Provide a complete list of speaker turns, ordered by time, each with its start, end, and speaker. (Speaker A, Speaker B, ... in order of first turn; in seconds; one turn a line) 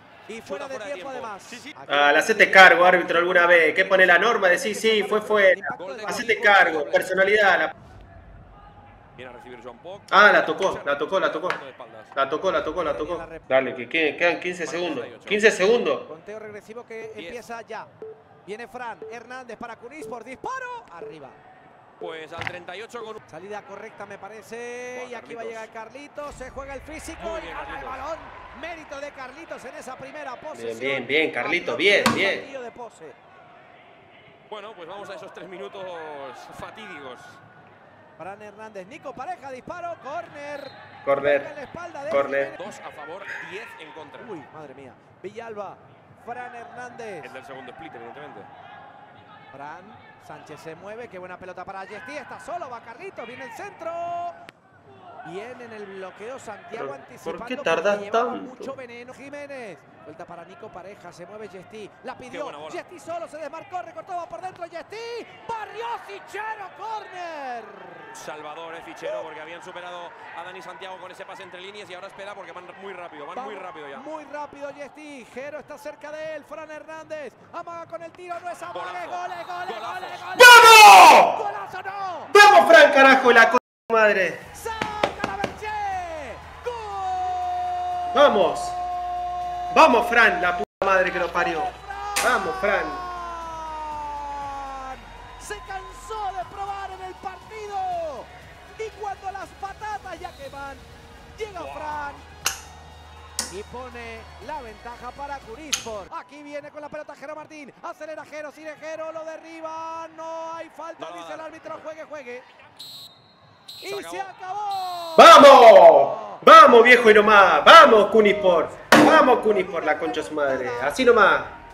Speaker A: 0.3-7.1
Speaker B: 0.5-1.4
Speaker C: 1.9-7.7
Speaker B: 5.7-7.1
Speaker B: 9.2-12.2
Speaker C: 10.1-11.6
Speaker C: 12.2-16.1
Speaker A: 12.6-13.7
Speaker B: 14.6-15.5
Speaker A: 16.1-17.9
Speaker B: 17.1-17.4
Speaker A: 18.4-21.4
Speaker B: 22.0-23.2
Speaker A: 23.3-33.2
Speaker B: 24.9-25.7
Speaker B: 27.2-28.0
Speaker C: 30.5-32.5
Speaker B: 34.5-37.4
Speaker A: 38.2-42.8
Speaker C: 41.0-41.5
Speaker C: 42.1-42.5
Speaker B: 42.6-44.4
Speaker A: 44.2-47.4
Speaker B: 47.2-48.5
Speaker A: 49.5-54.4
Speaker A: 55.2-68.2
Speaker C: 56.7-58.7
Speaker B: 62.3-62.9
Speaker B: 68.1-74.1
Speaker A: 73.3-83.1
Speaker B: 78.7-80.5
Speaker C: 80.5-81.3
Speaker C: 82.3-84.5
Speaker A: 84.5-88.4
Speaker C: 88.1-88.8
Speaker C: 89.7-93.0
Speaker A: 90.9-102.3
Speaker B: 101.6-102.2
Speaker A: 103.5-112.5
Speaker B: 111.0-111.9
Speaker A: 113.8-116.4
Speaker B: 113.8-114.3
Speaker C: 115.2-121.6
Speaker A: 117.6-121.1